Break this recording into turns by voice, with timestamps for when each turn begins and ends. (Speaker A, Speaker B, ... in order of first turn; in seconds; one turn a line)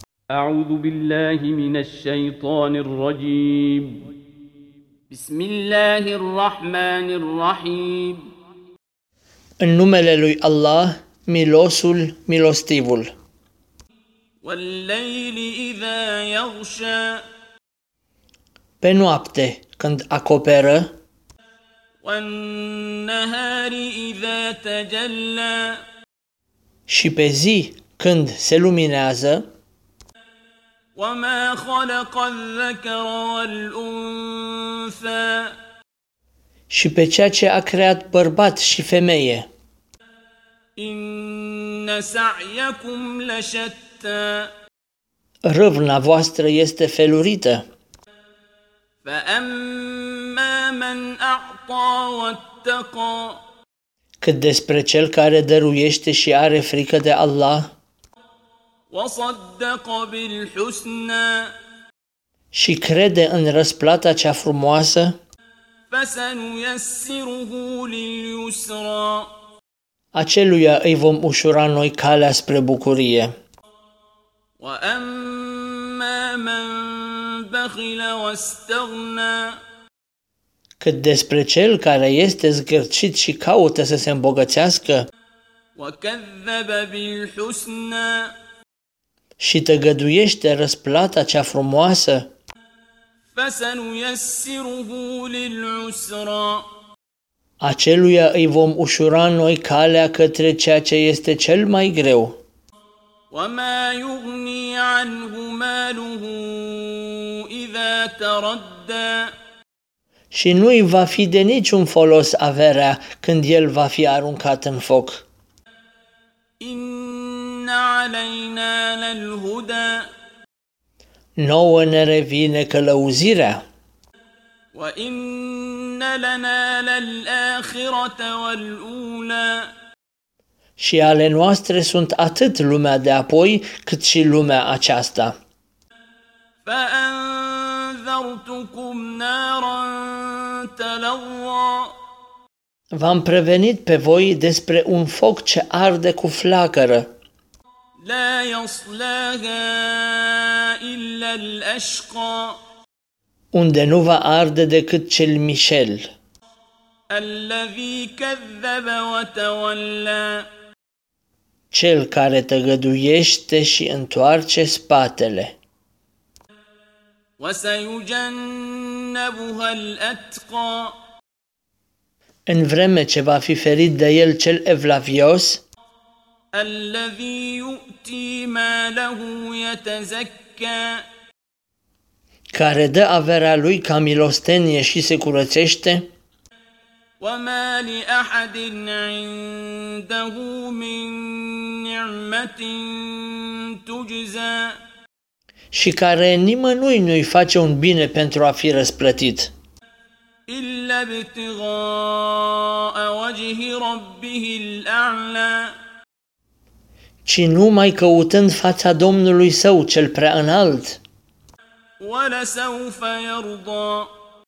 Speaker A: 0.3-4.0
Speaker A: 5.1-8.3
Speaker B: 9.6-13.1
Speaker A: 14.4-17.2
Speaker B: 18.8-20.9
Speaker A: 22.0-25.8
Speaker B: 26.9-29.4
Speaker A: 31.0-35.6
Speaker B: 36.7-39.5
Speaker A: 40.8-44.5
Speaker B: 45.5-47.6
Speaker A: 49.0-53.4
Speaker B: 54.2-57.7
Speaker A: 58.9-61.5
Speaker B: 62.5-65.2
Speaker A: 65.9-69.3
Speaker B: 70.1-73.3
Speaker A: 74.6-79.6
Speaker B: 80.8-85.1
Speaker A: 85.8-88.3
Speaker B: 89.4-92.3
Speaker A: 93.3-96.7
Speaker B: 97.6-102.4
Speaker A: 103.3-109.3
Speaker B: 110.3-115.2
Speaker A: 116.6-120.1
Speaker B: 121.4-123.6
Speaker A: 124.7-129.7
Speaker B: 130.8-135.3
Speaker A: 136.7-141.9
Speaker B: 142.9-147.1
Speaker A: 148.0-152.6
Speaker B: 153.5-156.1
Speaker A: 157.1-160.5
Speaker B: 161.7-165.6
Speaker A: 167.4-170.9
Speaker B: 172.5-175.6
Speaker A: 176.5-181.0
Speaker B: 182.5-186.1
Speaker A: 187.2-194.8
Speaker B: 195.7-199.5
Speaker A: 200.5-205.7
Speaker B: 207.3-211.0
Speaker A: 212.0-214.1